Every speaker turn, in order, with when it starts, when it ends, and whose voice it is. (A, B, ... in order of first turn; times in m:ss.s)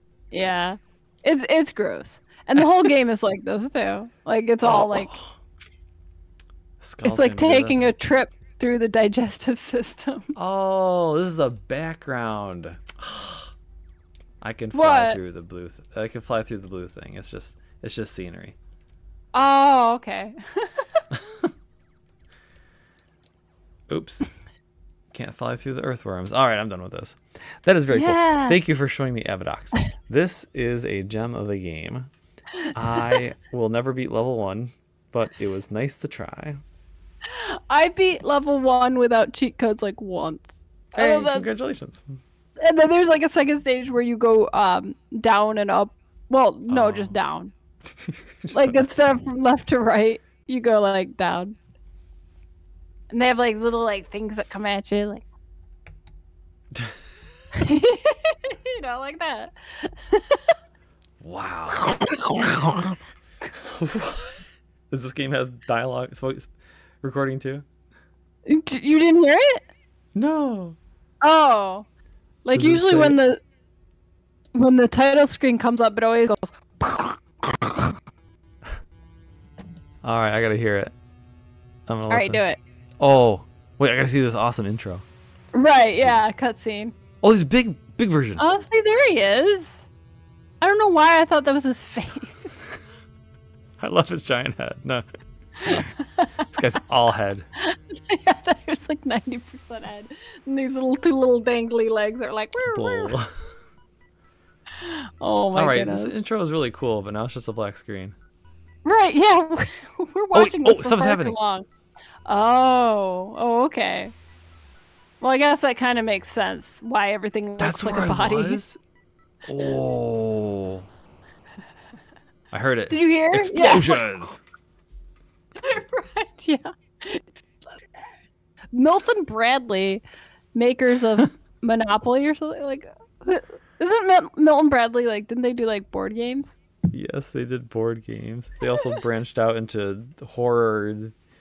0:00.3-0:05.1 A
0:04.6-0:05.4 B
0:06.8-0:07.9 B
0:07.0-0:10.3 A
0:10.4-0:13.5 B
0:14.4-0:18.6 B
0:14.7-0:15.2 A
0:19.3-0:21.0 A
0:23.9-0:24.3 B
0:25.1-0:32.1 B
0:27.9-0:28.6 A
0:32.7-0:36.6 B
0:37.3-0:41.5 A
0:41.0-0:42.2 B
0:42.6-0:47.5 A
0:46.7-0:47.2 B
0:48.0-0:48.9 B
0:48.5-0:51.6 A
0:53.1-0:55.2 A
0:57.5-1:00.5 A
1:01.2-1:03.0 B
1:03.6-1:04.4 B
1:04.9-1:07.7 B
1:08.5-1:09.6 A
1:10.2-1:10.8 B
1:11.2-1:11.9 A
1:12.4-1:13.4 A
1:12.5-1:13.2 B
1:14.5-1:17.2 A
1:20.0-1:20.9 B
1:21.9-1:22.4 B
1:22.1-1:22.6 A
1:23.0-1:25.0 B
1:25.5-1:26.9 A
1:27.2-1:28.4 B
1:28.4-1:29.8 A
1:30.6-1:32.5 A
1:33.8-1:35.0 B
1:35.6-1:36.5 A
1:35.7-1:35.9 B
1:36.5-1:37.5 B
1:37.6-1:43.1 A
1:42.7-1:43.3 B
1:44.8-1:46.1 A
1:45.5-1:48.2 B
1:48.8-1:51.7 A
1:50.3-1:51.4 B
1:52.3-1:54.1 A
1:55.2-1:58.6 A
1:57.6-1:58.8 B
1:59.5-2:00.8 B
2:02.5-2:04.4 B
2:02.9-2:04.0 A
2:05.6-2:08.1 A
2:08.7-2:16.5 A
2:16.9-2:21.1 B